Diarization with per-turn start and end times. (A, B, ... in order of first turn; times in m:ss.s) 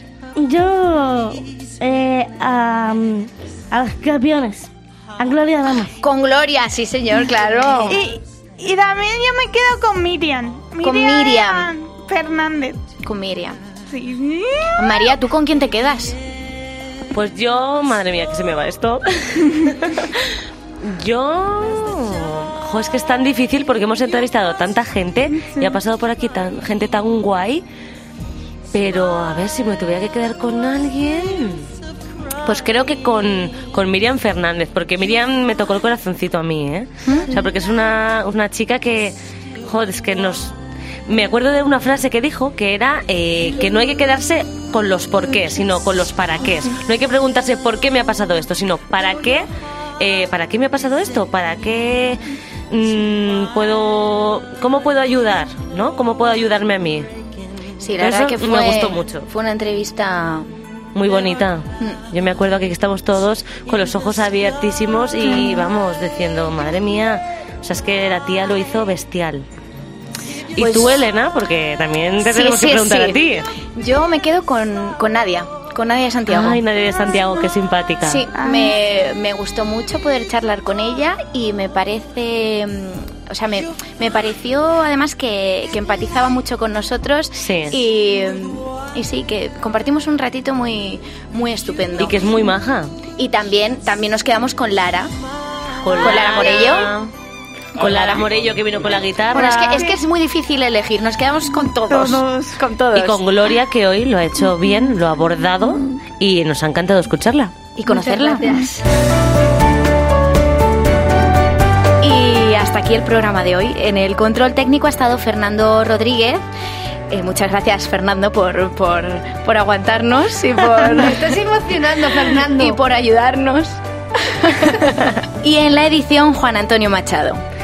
0:00.4-0:05.9 A
0:06.0-0:08.0 B
0:07.9-0:12.8 C
0:10.8-0:11.7 B
0:13.0-0:13.6 B
0:13.8-0:15.1 C
0:14.8-0:16.2 B
0:17.1-0:27.6 D
0:25.4-0:25.8 C
0:28.7-0:31.7 D
0:32.4-0:40.5 D
0:37.0-0:37.3 B
0:41.1-0:49.5 D
0:50.0-0:57.1 D
0:57.8-1:00.4 B
0:58.0-0:59.3 D
1:00.9-1:09.5 D
1:05.3-1:05.6 C
1:10.5-1:13.5 D
1:10.6-1:11.0 B
1:12.2-1:13.2 B
1:13.7-1:16.6 B
1:16.3-1:18.2 D
1:18.0-1:32.2 B
1:18.3-1:18.7 C
1:27.4-1:27.8 D
1:32.0-1:32.9 D
1:33.2-1:35.1 B
1:35.8-1:37.1 D
1:36.0-1:36.9 B
1:37.8-1:39.9 D
1:37.8-1:38.2 B
1:39.3-1:43.2 B
1:41.8-1:42.6 C
1:42.9-1:47.5 D
1:47.8-1:48.5 B
1:47.9-1:48.8 E
1:52.0-1:56.4 B
1:57.1-2:01.4 B
2:00.9-2:02.8 E
2:02.3-2:07.4 B